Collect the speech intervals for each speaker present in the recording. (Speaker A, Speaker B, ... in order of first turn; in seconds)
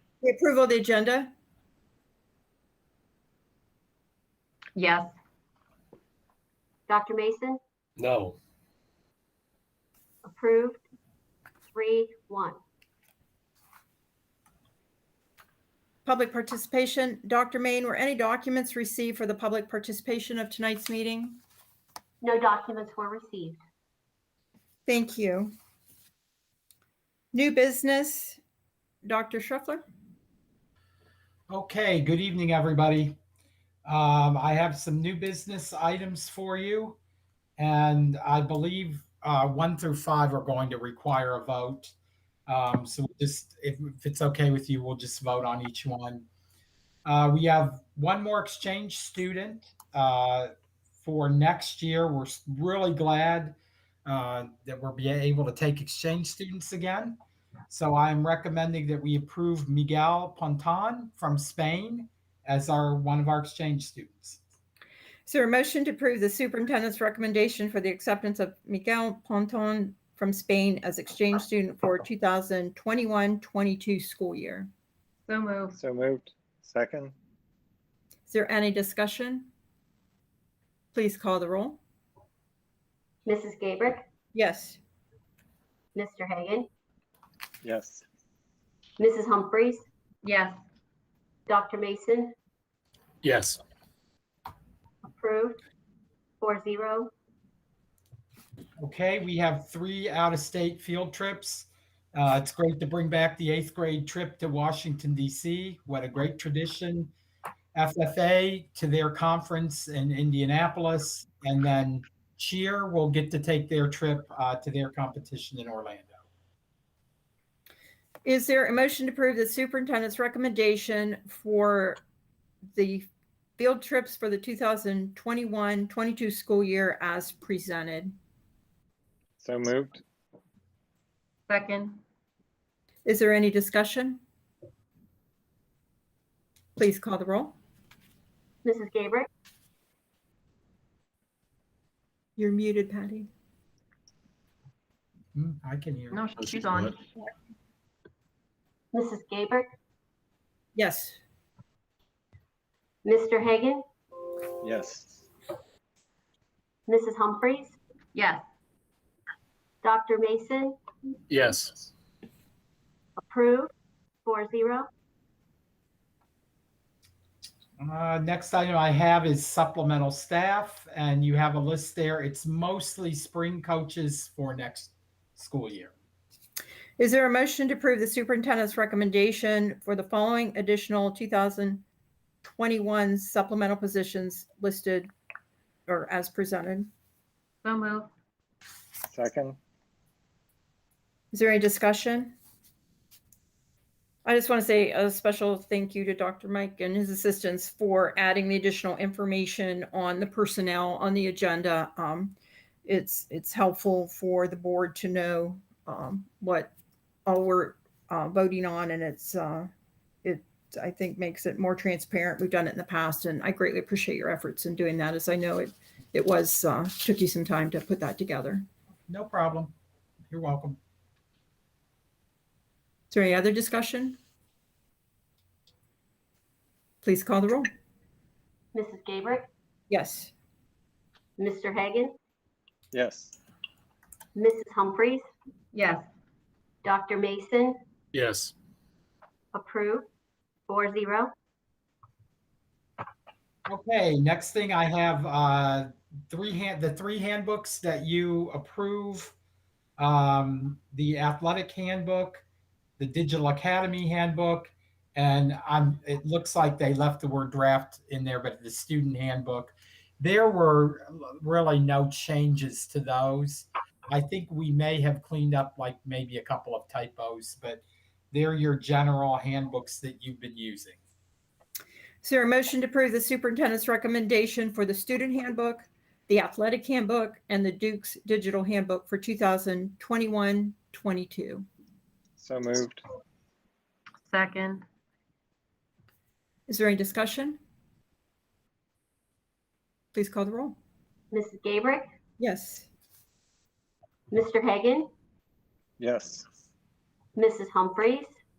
Speaker A: 0.2-1.3, 16.0-21.4, 24.9-25.5, 27.3-28.4, 29.0-29.8, 65.2-74.7, 78.3-79.5, 80.9-81.8, 84.3-84.8, 118.2-122.0, 122.7-128.1, 133.0-134.2, 136.8-137.5, 142.4-143.3, 150.7-151.2, 177.0-181.8, 182.4-185.1, 185.9-186.9, 191.3-192.3, 194.2-206.7, 207.2-209.7, 210.2-218.6, 223.1-224.2, 227.0-227.7, 229.9-230.3, 272.2-281.6, 286.7-287.6, 290.1-290.8, 292.4-292.9
Speaker B: 4.8-5.1, 75.3-75.8, 90.2-90.6, 131.5-132.0, 146.1-146.9, 158.1-158.4, 187.6-188.1, 235.7-236.1, 284.3-284.8
Speaker C: 6.9-7.6, 10.2-10.8, 11.7-12.6, 22.2-23.6, 83.2-84.0, 85.9-86.7, 89.0-89.8, 91.5-92.3, 95.0-95.6, 96.4-97.1, 138.6-139.3, 148.9-149.7, 153.0-153.8, 156.9-157.7, 159.8-160.8, 163.2-163.7, 164.2-164.9, 228.7-229.5, 231.4-232.1, 234.3-235.2, 236.8-237.8, 239.5-240.1, 240.7-241.3, 291.3-292.1, 294.3-295.1, 297.4-298.3
Speaker D: 8.0-8.3, 93.2-93.6, 146.4-146.9, 161.3-161.9, 238.1-238.5
Speaker E: 31.5-33.1, 33.8-37.0, 37.6-41.9, 42.5-46.3, 47.0-57.2, 57.7-64.4, 98.8-107.1, 107.7-116.1, 145.3-146.2, 167.8-175.9, 219.1-219.7, 220.3-220.8, 243.7-249.3, 250.0-252.4, 253.0-271.0
Speaker F: 75.7-77.1, 87.6-88.0, 129.4-130.0, 154.6-155.2, 189.1-189.6, 232.9-233.3, 282.4-283.0, 296.0-296.4